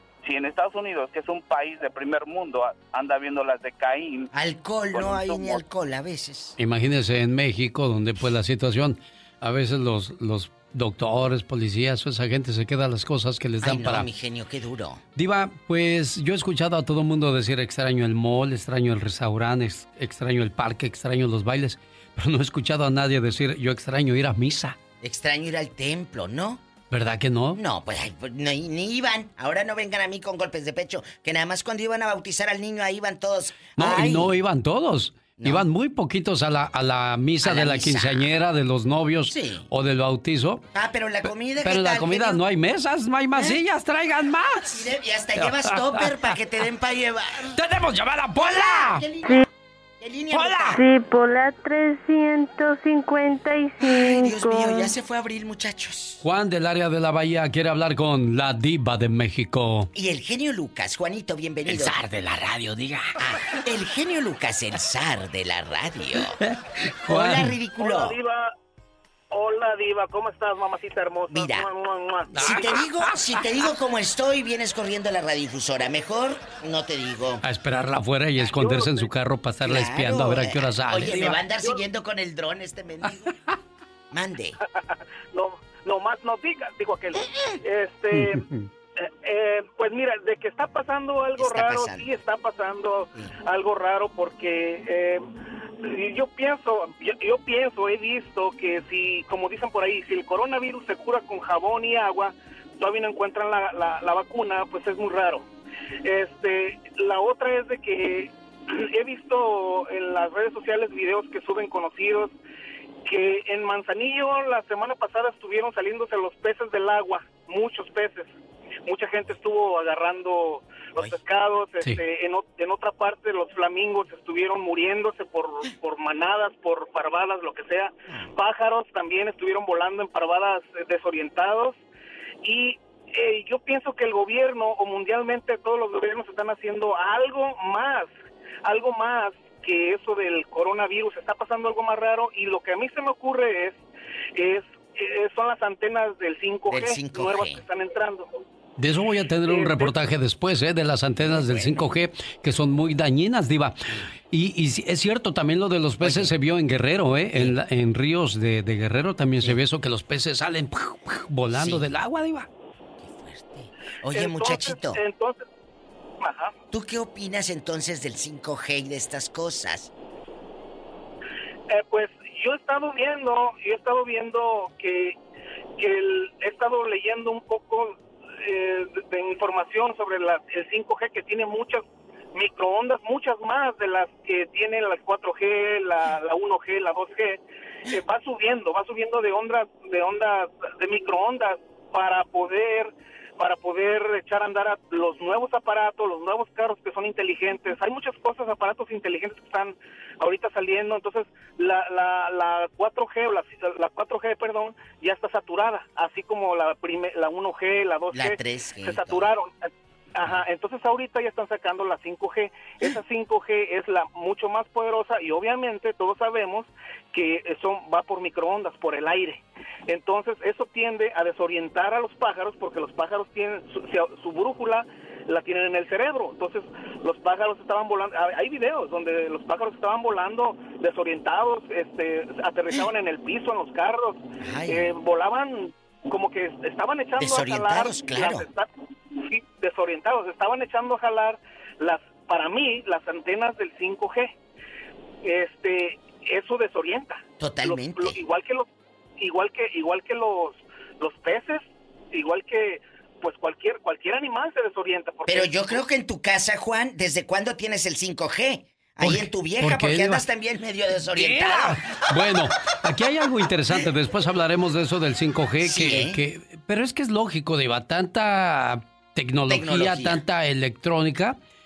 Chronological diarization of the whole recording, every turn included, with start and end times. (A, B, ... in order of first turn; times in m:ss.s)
0:00.2-0:04.3 A
0:04.3-0:06.6 B
0:04.9-0:05.6 A
0:06.6-0:14.1 C
0:13.6-0:15.0 B
0:15.2-0:24.8 C
0:25.0-0:26.6 B
0:26.9-0:27.6 C
0:27.6-0:34.3 B
0:33.8-0:40.6 C
0:35.4-0:35.7 B
0:37.4-0:38.3 B
0:39.3-0:39.7 B
0:40.8-0:42.4 B
0:41.6-0:44.9 C
0:44.7-0:47.5 B
0:45.4-0:46.1 C
0:47.5-0:49.0 C
0:48.4-0:49.5 B
0:50.0-0:50.8 B
0:50.3-0:50.8 C
0:50.7-0:54.9 D
0:53.8-0:56.2 B
0:56.2-0:59.9 C
0:59.9-1:02.0 B
1:01.7-1:03.1 C
1:03.2-1:06.4 B
1:06.4-1:07.6 C
1:07.1-1:08.2 B
1:07.8-1:08.4 E
1:09.3-1:12.5 E
1:11.3-1:11.7 B
1:12.3-1:13.1 C
1:12.4-1:17.4 B
1:17.4-1:21.4 C
1:18.6-1:18.9 E
1:19.6-1:23.2 B
1:24.1-1:24.6 B
1:25.3-1:28.4 E
1:28.2-1:28.7 C
1:29.2-1:35.2 E
1:31.4-1:32.2 B
1:35.8-1:45.4 E
1:46.0-1:52.3 E
1:53.1-1:58.3 E
1:58.9-2:11.8 E
2:01.0-2:01.2 B
2:12.4-2:18.1 E
2:18.6-2:23.8 E
2:24.4-2:28.3 E
2:26.7-2:27.6 B
2:28.8-2:33.8 C
2:29.5-2:29.9 E
2:31.3-2:31.8 B
2:34.3-2:42.5 C
2:36.0-2:36.3 B
2:41.5-2:41.9 B
2:43.0-2:45.0 B
2:44.1-2:45.4 E
2:46.2-2:46.5 E
2:46.7-2:49.9 B
2:51.7-2:55.2 E
2:55.8-4:04.3 E
3:28.1-3:29.3 B
3:54.4-3:54.9 B
3:57.2-3:58.5 B
4:05.2-4:08.7 E
4:07.4-4:08.2 B
4:09.2-4:15.7 E
4:15.3-4:21.8 B
4:19.0-4:20.2 C
4:21.1-4:31.4 C
4:25.6-4:26.2 B
4:29.5-4:30.2 B